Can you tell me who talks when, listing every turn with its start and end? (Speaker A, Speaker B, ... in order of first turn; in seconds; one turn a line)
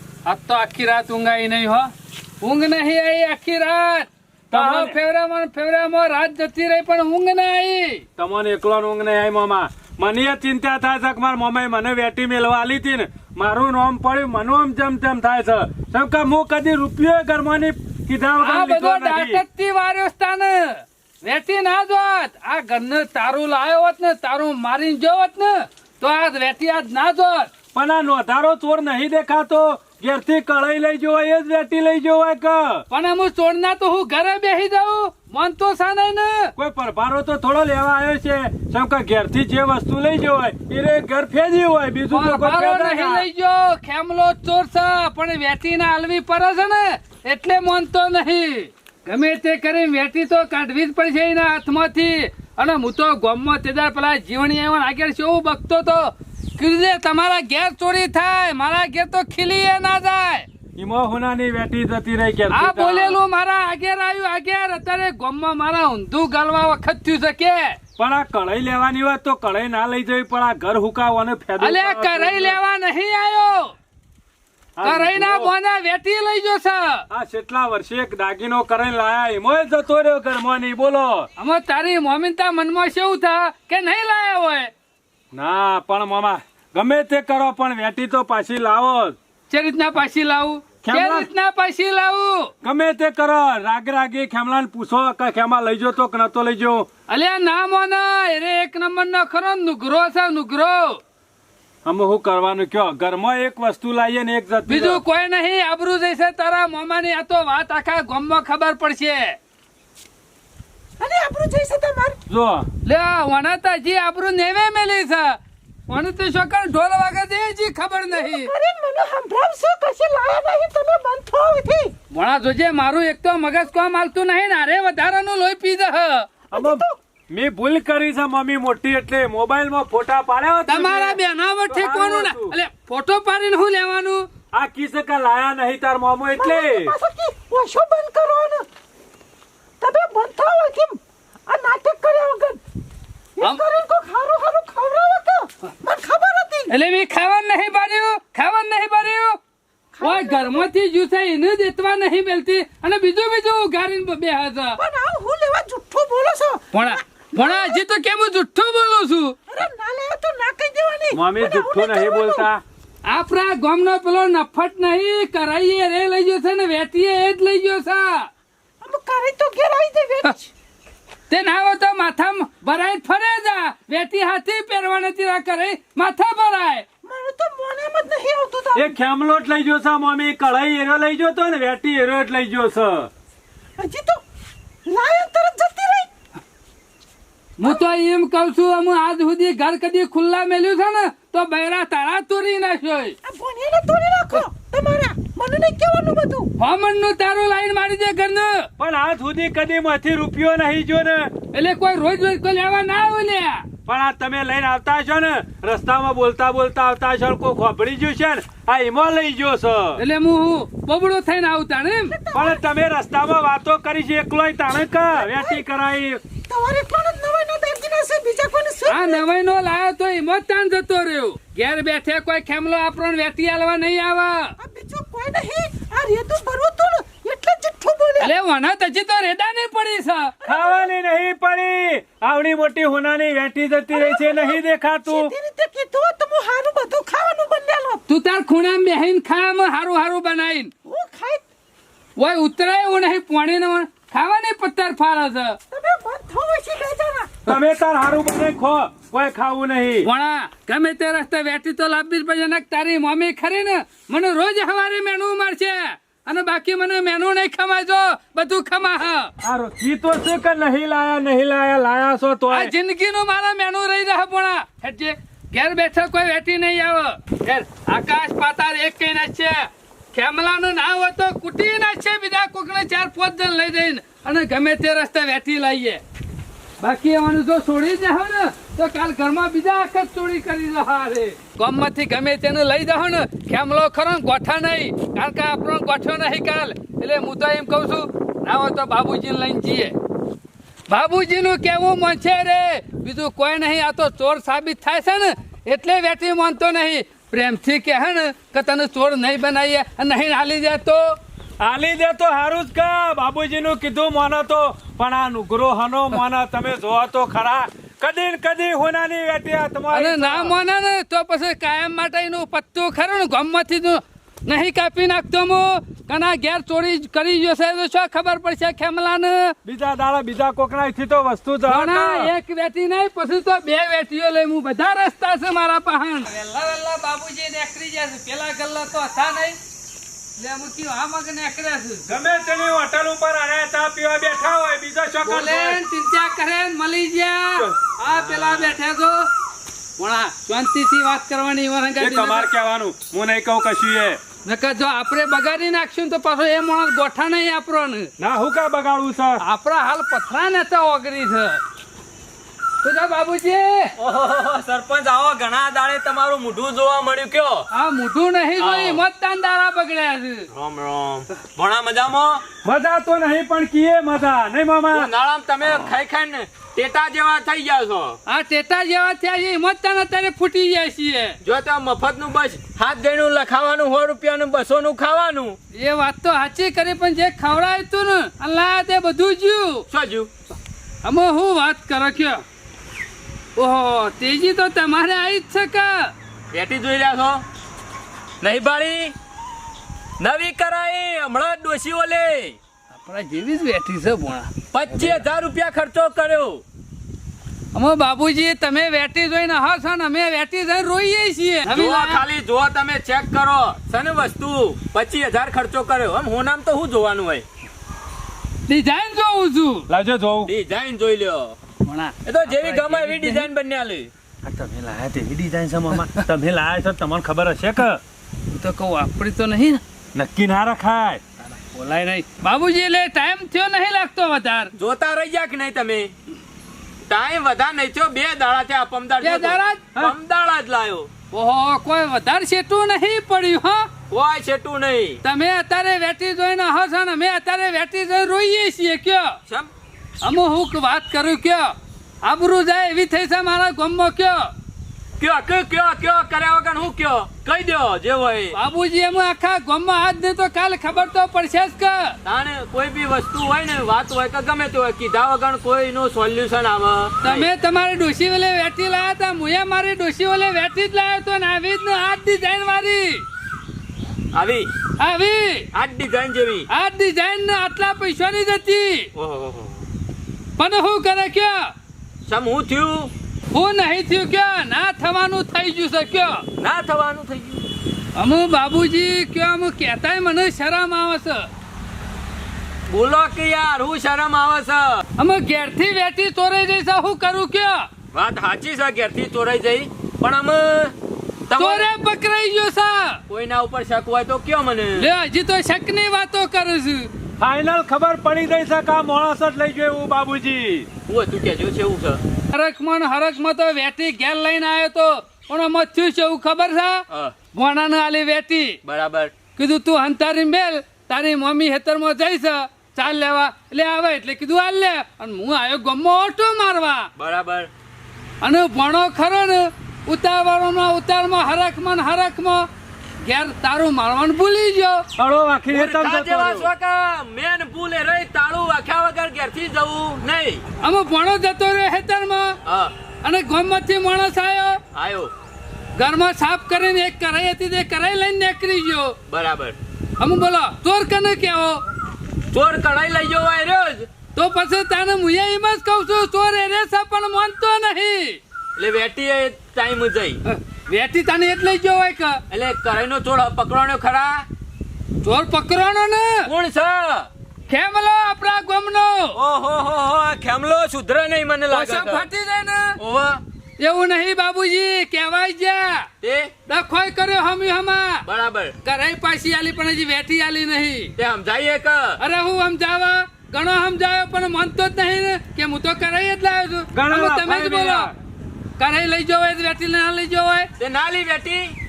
Speaker A: 0.3-8.0
Speaker B: 4.5-5.0
Speaker B: 8.2-19.4
Speaker A: 18.4-27.5
Speaker B: 27.7-32.8
Speaker A: 32.9-36.5
Speaker B: 36.6-43.3
Speaker A: 42.1-60.5
Speaker B: 60.8-63.2
Speaker A: 62.5-67.8
Speaker B: 68.0-72.6
Speaker A: 71.6-73.7
Speaker B: 74.8-75.5
Speaker A: 74.8-77.0
Speaker B: 77.1-81.3
Speaker A: 81.4-84.7
Speaker B: 85.3-89.2
Speaker A: 89.5-92.5
Speaker B: 90.8-91.3
Speaker B: 92.6-96.9
Speaker A: 97.1-101.0
Speaker B: 101.8-105.0
Speaker A: 104.7-109.4
Speaker C: 111.0-112.2
Speaker B: 112.3-112.7
Speaker A: 112.8-118.5
Speaker C: 118.1-121.9
Speaker A: 122.1-126.3
Speaker C: 126.5-127.0
Speaker B: 126.5-132.6
Speaker A: 130.7-134.3
Speaker B: 134.5-136.9
Speaker C: 136.3-138.7
Speaker C: 139.8-142.6
Speaker C: 143.4-146.8
Speaker A: 146.7-149.4
Speaker C: 150.0-150.7
Speaker A: 150.0-154.8
Speaker C: 154.8-157.8
Speaker A: 156.7-159.4
Speaker C: 159.5-162.5
Speaker B: 161.1-162.6
Speaker A: 163.1-168.3
Speaker C: 168.8-170.5
Speaker A: 171.3-176.8
Speaker C: 177.0-179.0
Speaker B: 178.8-183.1
Speaker C: 183.8-184.2
Speaker C: 184.9-186.1
Speaker A: 187.6-193.2
Speaker C: 193.2-196.5
Speaker A: 196.6-198.7
Speaker B: 198.8-201.3
Speaker A: 201.5-203.7
Speaker B: 203.9-210.0
Speaker A: 210.0-212.2
Speaker C: 212.1-212.6
Speaker B: 212.3-216.2
Speaker C: 215.1-215.6
Speaker C: 216.5-219.2
Speaker A: 218.9-224.6
Speaker C: 224.6-228.3
Speaker A: 228.2-230.3
Speaker C: 230.4-230.9
Speaker B: 230.4-235.3
Speaker C: 233.9-238.0
Speaker A: 238.1-240.7
Speaker C: 240.9-241.4
Speaker A: 242.2-245.6
Speaker C: 245.7-247.4
Speaker B: 247.4-250.1
Speaker A: 250.0-259.3
Speaker B: 259.4-262.7
Speaker A: 262.5-276.0
Speaker A: 276.8-289.9
Speaker A: 290.9-301.2
Speaker B: 301.6-310.6
Speaker A: 309.9-319.6
Speaker B: 319.6-322.3
Speaker A: 321.7-329.6
Speaker A: 330.4-332.0
Speaker B: 332.1-335.8
Speaker A: 335.2-339.3
Speaker A: 340.0-342.5
Speaker B: 342.0-344.2
Speaker A: 344.5-348.1
Speaker B: 348.2-349.4
Speaker A: 349.4-351.6
Speaker A: 352.8-353.9
Speaker D: 354.0-357.7
Speaker A: 357.7-360.5
Speaker D: 358.6-359.0
Speaker D: 360.5-362.4
Speaker B: 362.6-365.1
Speaker D: 364.9-368.2
Speaker A: 368.3-371.4
Speaker D: 371.4-375.6
Speaker A: 375.7-379.8
Speaker D: 379.9-380.3
Speaker A: 381.0-382.4
Speaker A: 383.6-386.1
Speaker D: 386.5-387.4
Speaker D: 388.4-389.1
Speaker D: 390.2-392.6
Speaker A: 393.0-394.5
Speaker D: 394.7-396.6
Speaker A: 397.7-402.2
Speaker D: 401.7-407.4
Speaker A: 408.7-409.9
Speaker B: 409.9-410.5
Speaker D: 410.4-411.6
Speaker A: 411.8-413.5
Speaker D: 412.2-414.1
Speaker B: 414.4-418.0
Speaker A: 418.5-419.8
Speaker B: 420.1-421.2
Speaker A: 421.6-424.7
Speaker D: 424.8-426.1
Speaker D: 427.1-431.1
Speaker A: 429.2-429.9
Speaker A: 431.3-433.9
Speaker D: 434.1-435.2
Speaker A: 435.2-439.4
Speaker A: 440.2-444.5
Speaker D: 445.2-448.6
Speaker A: 448.5-452.2
Speaker D: 452.2-457.5
Speaker A: 457.2-463.2
Speaker D: 464.3-464.7
Speaker A: 465.0-465.7
Speaker D: 465.7-466.7
Speaker A: 466.7-469.1
Speaker D: 469.2-469.8
Speaker A: 470.6-471.7
Speaker D: 472.3-473.1
Speaker A: 473.5-476.4
Speaker D: 476.6-477.7
Speaker A: 478.2-481.5
Speaker D: 482.9-485.0
Speaker A: 485.2-487.9
Speaker D: 488.1-490.9
Speaker D: 491.5-491.9
Speaker A: 491.6-493.2
Speaker D: 493.3-495.1
Speaker A: 495.0-497.1
Speaker B: 497.4-500.9
Speaker D: 501.1-502.2
Speaker A: 502.5-507.0
Speaker D: 507.1-507.4
Speaker A: 507.5-508.8
Speaker D: 508.8-509.3
Speaker A: 509.6-517.1
Speaker D: 517.2-517.7
Speaker A: 518.4-522.7
Speaker A: 523.2-525.0
Speaker B: 525.2-526.7
Speaker D: 525.7-530.6
Speaker A: 530.8-532.6
Speaker D: 532.7-532.9
Speaker A: 533.2-534.8
Speaker D: 534.9-535.3
Speaker A: 536.0-539.2
Speaker D: 539.3-539.8
Speaker A: 540.2-541.8
Speaker D: 542.5-544.1
Speaker A: 544.4-548.4
Speaker D: 548.8-550.4
Speaker A: 550.5-552.4
Speaker D: 552.5-554.5
Speaker A: 555.2-556.5
Speaker D: 556.5-557.3
Speaker A: 557.7-559.4
Speaker D: 559.4-562.3
Speaker A: 561.7-563.0
Speaker D: 563.0-563.4
Speaker A: 563.8-566.1
Speaker D: 566.2-566.5
Speaker A: 566.7-568.2
Speaker D: 568.2-568.7
Speaker A: 568.9-571.1
Speaker D: 571.2-572.2
Speaker A: 572.2-578.1
Speaker B: 576.9-578.1
Speaker A: 578.8-580.7
Speaker D: 580.8-581.7